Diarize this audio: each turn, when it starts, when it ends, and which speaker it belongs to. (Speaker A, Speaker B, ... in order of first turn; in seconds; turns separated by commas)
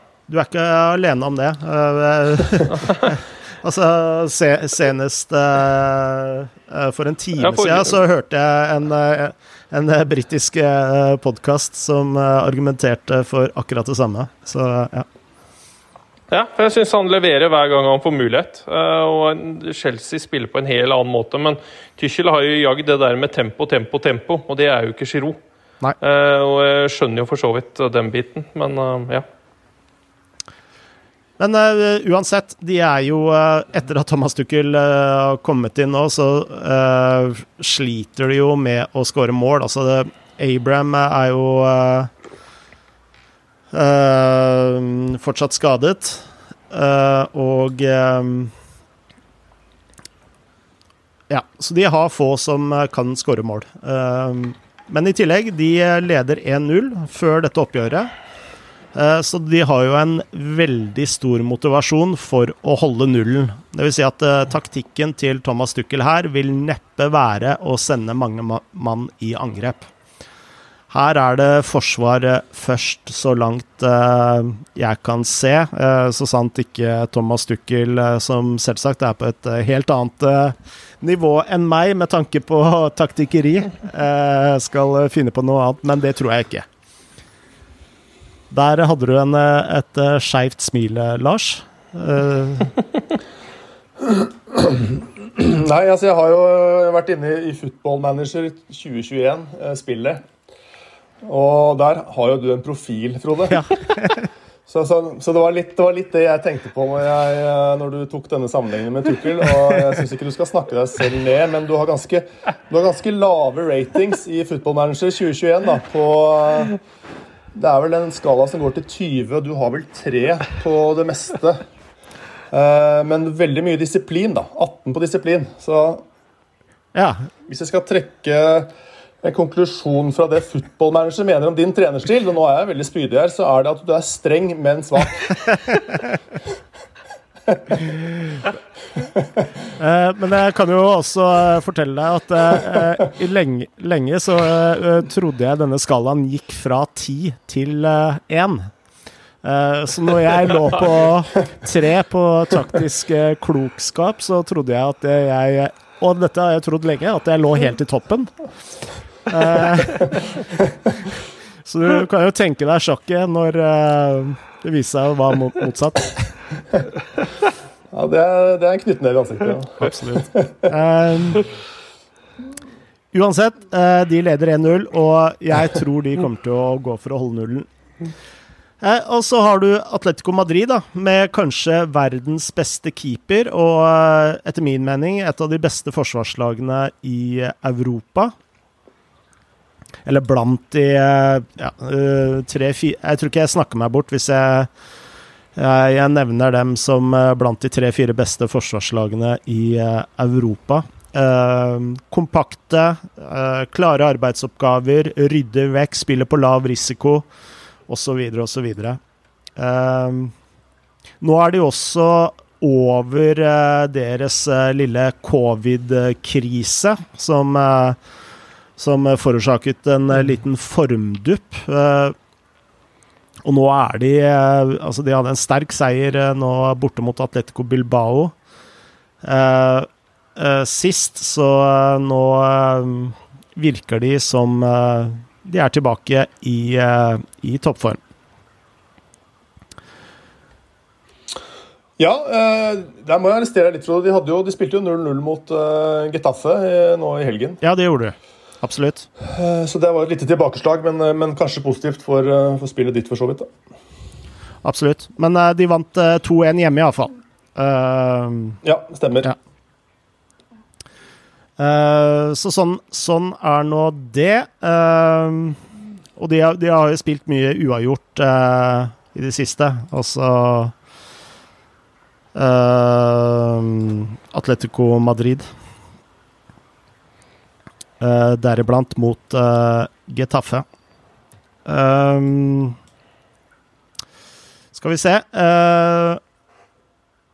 Speaker A: 0.3-15.1, Speaker B: 7.4-8.0, Speaker B: 16.3-25.4, Speaker B: 26.0-29.2, Speaker A: 31.4-42.1, Speaker A: 43.7-48.5, Speaker A: 51.3-58.1, Speaker A: 58.9-69.9, Speaker A: 70.9-86.7, Speaker A: 88.5-92.7, Speaker C: 94.0-100.2, Speaker C: 101.2-103.7, Speaker A: 103.5-104.2, Speaker C: 104.7-116.8, Speaker C: 117.5-121.6, Speaker C: 122.5-126.0, Speaker A: 126.9-127.3, Speaker C: 127.5-128.7, Speaker C: 129.2-135.4, Speaker A: 139.8-148.7, Speaker A: 149.4-158.3, Speaker A: 159.2-160.2, Speaker A: 161.6-166.3, Speaker C: 167.9-170.7, Speaker A: 169.8-171.4, Speaker A: 173.1-177.7, Speaker A: 178.8-188.3, Speaker A: 190.0-194.7, Speaker A: 195.6-207.2, Speaker A: 207.9-209.0, Speaker A: 209.6-210.3, Speaker A: 211.2-218.0, Speaker A: 218.8-222.1, Speaker A: 223.4-228.3, Speaker A: 229.2-238.0, Speaker C: 242.0-247.6, Speaker A: 247.6-249.1, Speaker C: 249.2-253.5, Speaker A: 254.6-258.6, Speaker C: 258.6-259.3, Speaker A: 261.6-265.6, Speaker A: 266.1-270.7, Speaker A: 272.3-275.5, Speaker A: 278.0-280.6, Speaker A: 281.6-282.8, Speaker A: 284.7-286.2